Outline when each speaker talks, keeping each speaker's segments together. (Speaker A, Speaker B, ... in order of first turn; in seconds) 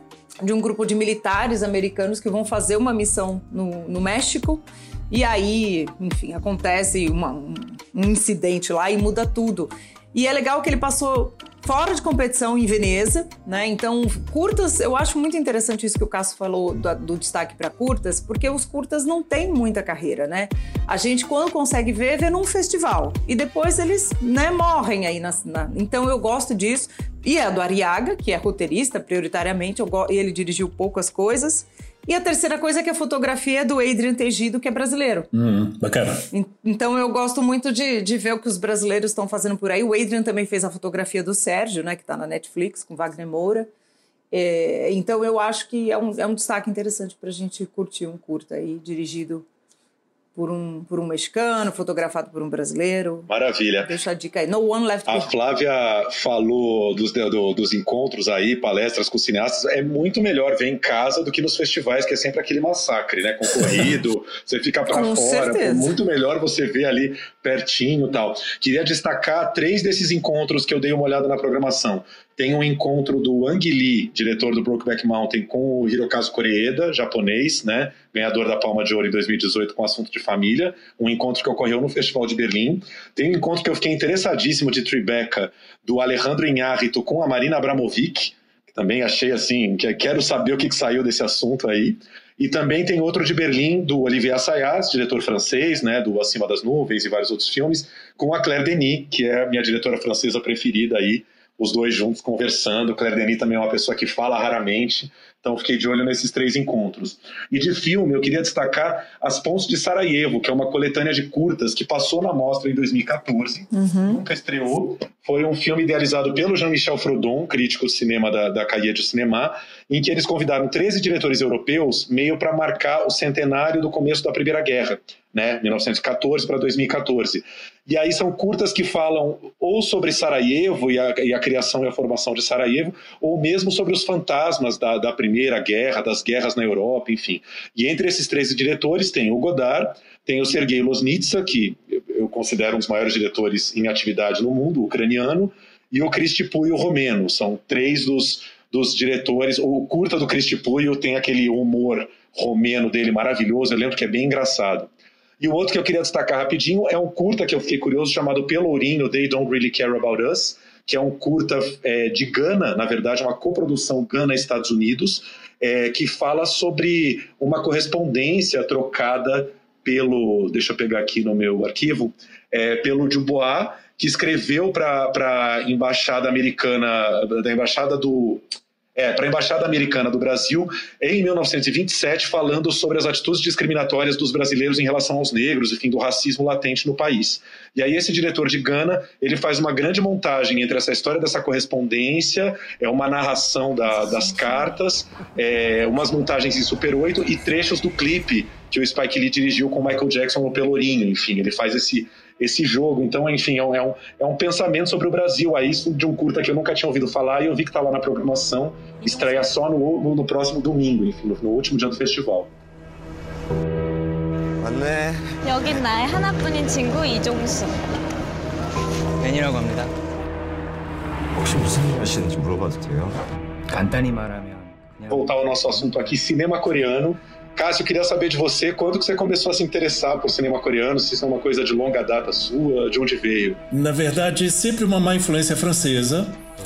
Speaker A: 0.4-35.3, 36.3-43.7, 44.3-49.5, 50.4-53.3, 53.8-55.3, 64.9-65.9, 113.7-114.2
Speaker B: 35.3-36.3, 233.7-236.4
Speaker C: 53.3-53.9, 55.1-178.4, 179.0-212.5, 225.1-233.6
Speaker D: 214.6-215.4, 221.4-223.2
Speaker E: 215.4-217.8
Speaker F: 219.2-219.9, 223.7-226.0